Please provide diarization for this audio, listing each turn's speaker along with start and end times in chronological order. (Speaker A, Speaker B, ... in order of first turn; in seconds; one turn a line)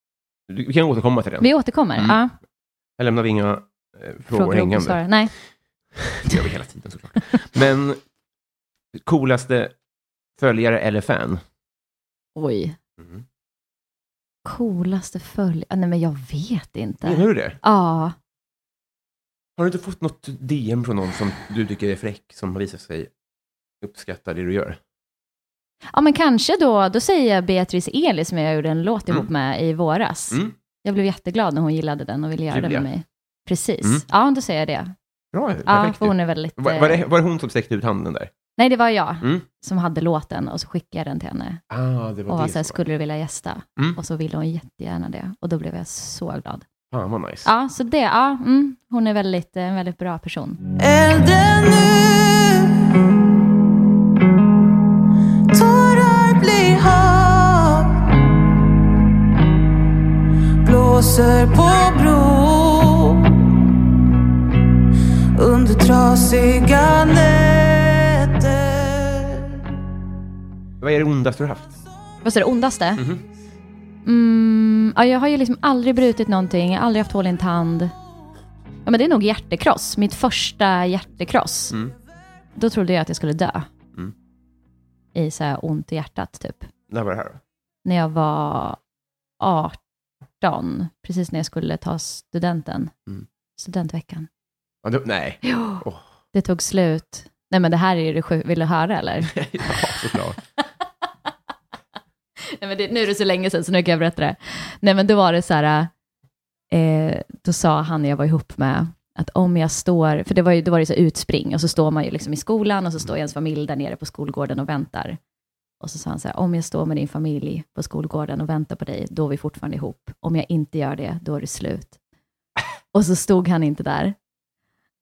Speaker A: 0.5-2.2
Speaker B: 1.4-2.3
Speaker A: 3.0-5.1
Speaker B: 4.3-5.3
Speaker A: 6.0-8.0
Speaker A: 9.0-9.7
Speaker A: 10.4-11.4
Speaker B: 12.3-12.8
Speaker A: 13.0-13.2
Speaker B: 14.4-18.1
Speaker A: 17.0-17.6
Speaker A: 19.6-23.1
Speaker A: 23.8-24.8
Speaker B: 25.9-34.9
Speaker A: 32.5-32.9
Speaker A: 35.3-38.3
Speaker B: 35.6-37.0
Speaker B: 38.6-41.6
Speaker A: 41.7-42.8
Speaker B: 42.3-46.6
Speaker A: 46.9-47.5
Speaker B: 47.4-50.6
Speaker C: 50.8-53.0
Speaker C: 55.5-58.0
Speaker C: 60.6-63.4
Speaker C: 65.4-69.5
Speaker A: 70.8-71.8
Speaker B: 72.2-73.0
Speaker A: 73.0-73.2
Speaker B: 74.0-77.9
Speaker B: 78.8-81.7
Speaker B: 82.5-83.7
Speaker B: 85.1-86.7
Speaker A: 86.9-87.4
Speaker B: 87.8-88.8
Speaker B: 89.4-89.8
Speaker B: 90.4-92.9
Speaker B: 93.6-94.3
Speaker A: 94.8-96.0
Speaker B: 95.4-95.8
Speaker B: 96.3-99.3
Speaker A: 99.3-100.4
Speaker B: 102.5-105.9
Speaker B: 106.7-115.2
Speaker B: 115.8-121.9
Speaker B: 122.9-124.1